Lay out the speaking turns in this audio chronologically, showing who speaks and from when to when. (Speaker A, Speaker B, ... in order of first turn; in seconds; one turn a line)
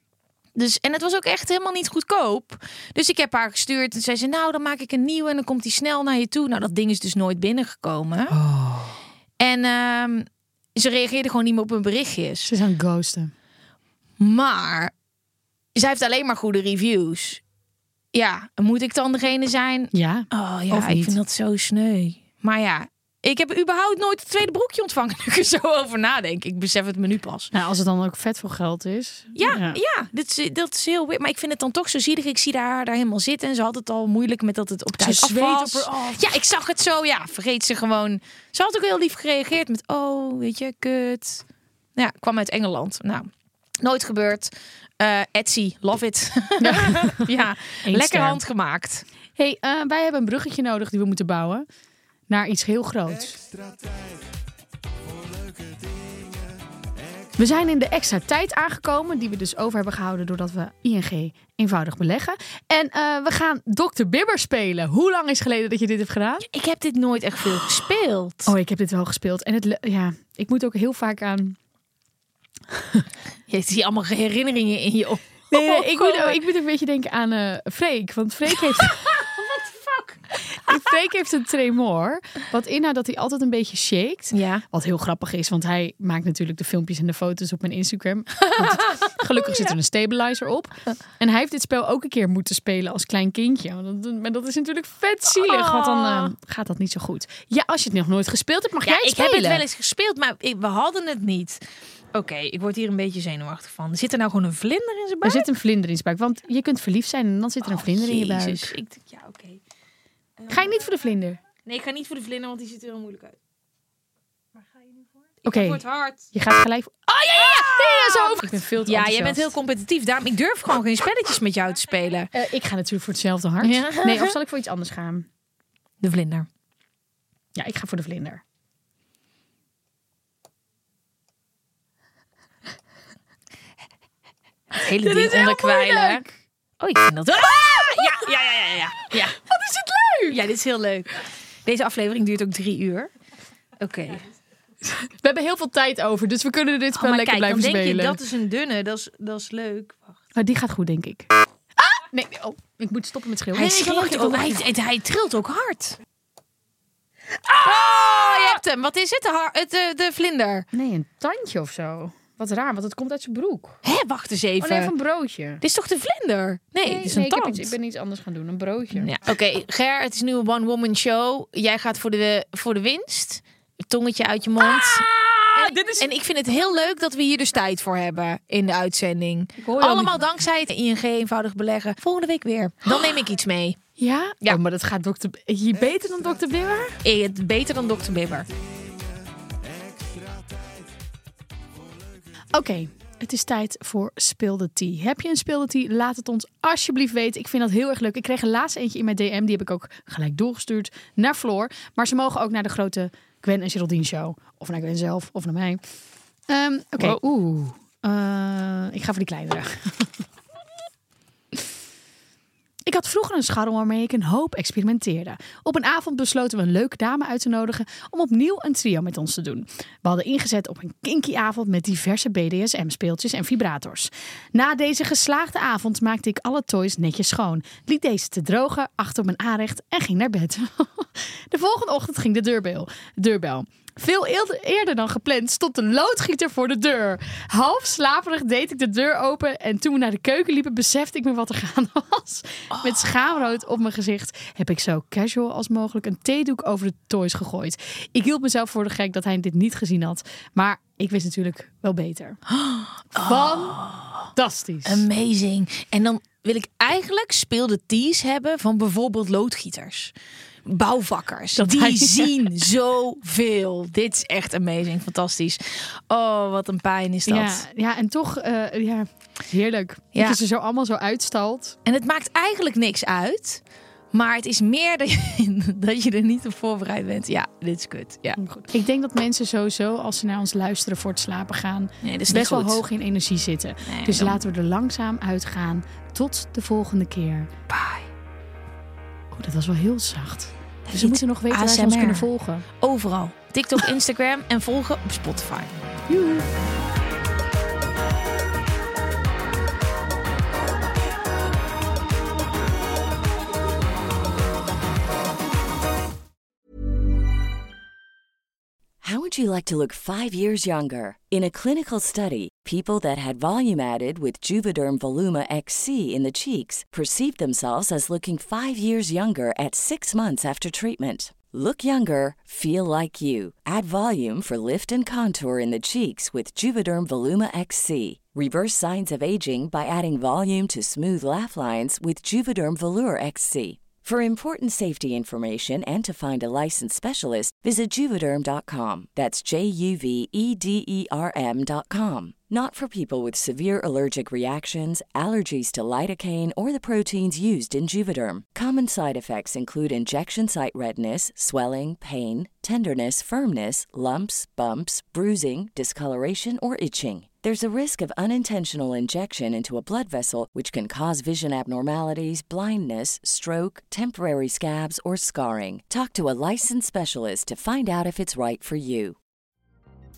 Speaker A: 0.6-8.3
Speaker B: 8.3-9.0
Speaker A: 9.4-12.5
Speaker B: 12.4-13.3
Speaker A: 14.2-14.9
Speaker A: 15.7-17.4
Speaker A: 18.1-27.5
Speaker B: 19.9-21.1
Speaker B: 27.5-29.8
Speaker A: 29.3-41.4
Speaker B: 35.0-36.2
Speaker A: 42.0-43.3
Speaker A: 43.8-49.0
Speaker B: 46.6-47.3
Speaker B: 47.8-48.4
Speaker B: 49.4-51.6
Speaker B: 52.3-53.4
Speaker B: 57.4-66.5
Speaker A: 66.5-68.5
Speaker B: 68.5-71.6
Speaker B: 72.8-73.0
Speaker A: 73.5-76.4
Speaker B: 75.5-79.2
Speaker A: 78.8-80.2
Speaker B: 80.3-99.6
Speaker A: 84.3-84.6
Speaker A: 88.5-89.7
Speaker A: 95.3-96.3
Speaker A: 98.8-101.6
Speaker A: 102.1-105.5
Speaker B: 105.2-108.8
Speaker A: 107.6-109.6
Speaker A: 110.4-110.7
Speaker B: 110.5-111.4
Speaker A: 111.6-113.3
Speaker B: 115.4-119.5
Speaker A: 115.5-116.2
Speaker A: 117.2-122.3
Speaker B: 122.3-125.3
Speaker A: 123.6-124.3
Speaker A: 126.0-126.5
Speaker B: 127.5-128.4
Speaker A: 134.7-136.2
Speaker B: 134.8-136.3
Speaker A: 136.8-139.4
Speaker B: 137.5-138.3
Speaker B: 139.3-140.4
Speaker A: 140.3-143.1
Speaker A: 143.8-144.2
Speaker B: 145.0-148.2
Speaker A: 147.0-150.2
Speaker B: 150.3-154.6
Speaker A: 153.5-156.0
Speaker B: 157.4-158.6
Speaker A: 157.6-160.7
Speaker B: 160.7-163.8
Speaker A: 163.8-164.9
Speaker B: 164.6-165.6
Speaker A: 165.6-167.7
Speaker B: 166.8-169.1
Speaker A: 169.0-183.8
Speaker B: 174.6-176.1
Speaker B: 179.6-180.2
Speaker B: 184.0-187.0
Speaker A: 187.0-188.4
Speaker B: 192.5-205.8
Speaker B: 206.5-210.2
Speaker B: 212.8-252.4
Speaker A: 252.5-254.3
Speaker B: 253.2-253.8
Speaker B: 254.3-255.0
Speaker A: 254.8-260.1
Speaker A: 260.6-267.6
Speaker B: 261.6-262.3
Speaker B: 267.3-271.8
Speaker A: 271.9-273.6
Speaker A: 274.1-278.4
Speaker B: 278.4-287.5
Speaker A: 282.0-282.8
Speaker A: 283.9-284.4
Speaker A: 287.7-288.1
Speaker B: 289.3-292.6
Speaker A: 290.9-295.7
Speaker B: 296.1-296.5
Speaker C: 309.0-369.2